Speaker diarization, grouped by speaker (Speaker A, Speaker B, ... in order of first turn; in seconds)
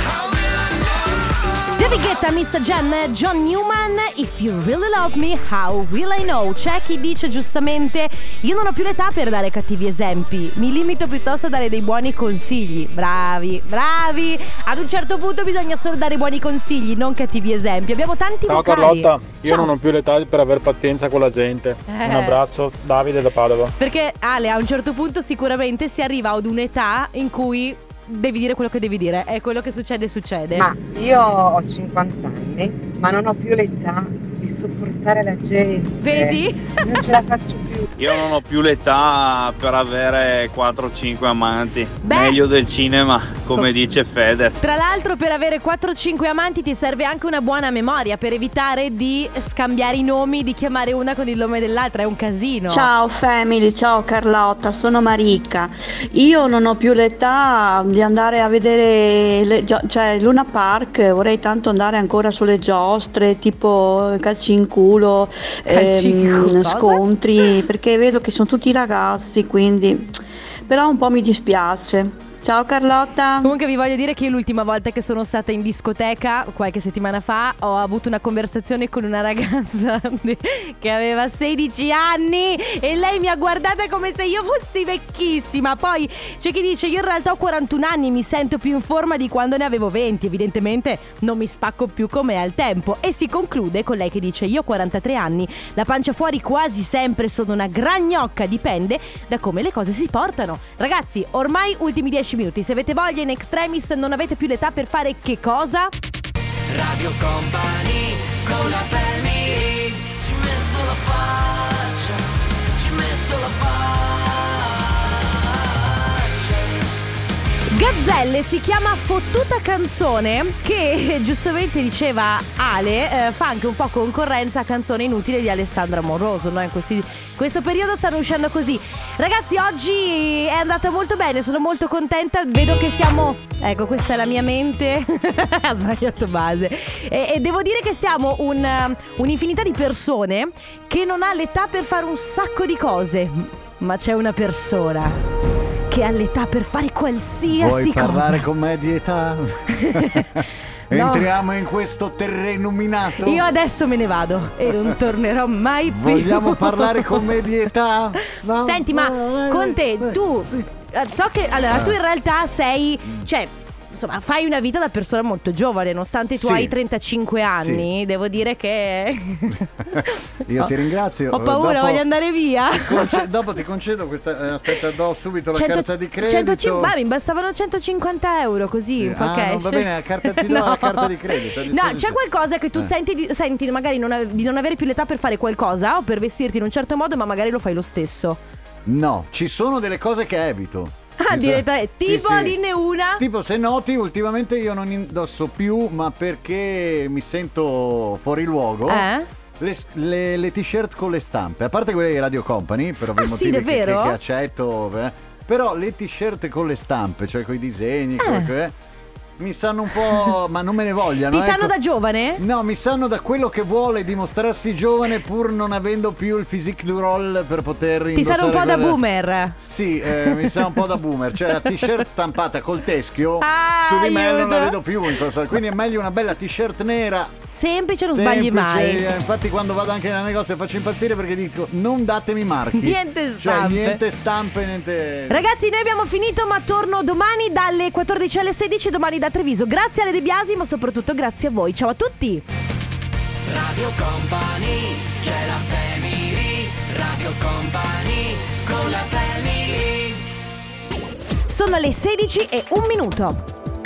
Speaker A: 1.8-19.7, 21.9-22.4, 23.8-30.7, 36.0-37.2, 42.0-42.4, 44.6-52.9, 65.7-67.0, 73.4-105.9, 117.7-145.2, 145.9-148.4, 149.8-150.3, 150.9-151.3, 153.2-157.2, 158.6-170.7, 171.3-173.2, 175.6-181.1, 181.7-188.4, 191.2-193.2, 198.9-199.3, 203.2-204.2, 208.2-208.5, 211.3-212.4, 218.1-219.6, 220.2-220.6, 223.4-224.8, 227.5-229.0, 232.8-234.0, 235.3-242.4, 251.5-253.4
Speaker B: 18.5-23.7
Speaker C: 30.5-38.1
Speaker D: 38.0-44.6
Speaker E: 52.7-73.5
Speaker F: 106.7-112.2, 112.7-114.7, 116.3-116.5, 243.4-250.2
Speaker G: 147.5-153.5, 155.9-160.7, 161.7-162.0, 166.3-166.8, 167.6-167.9, 170.0-172.1, 172.7-176.9, 179.0-182.2, 188.9-192.6, 193.2-199.1, 199.6-208.7, 209.4-211.8, 212.4-219.0, 219.6-227.3, 228.1-235.5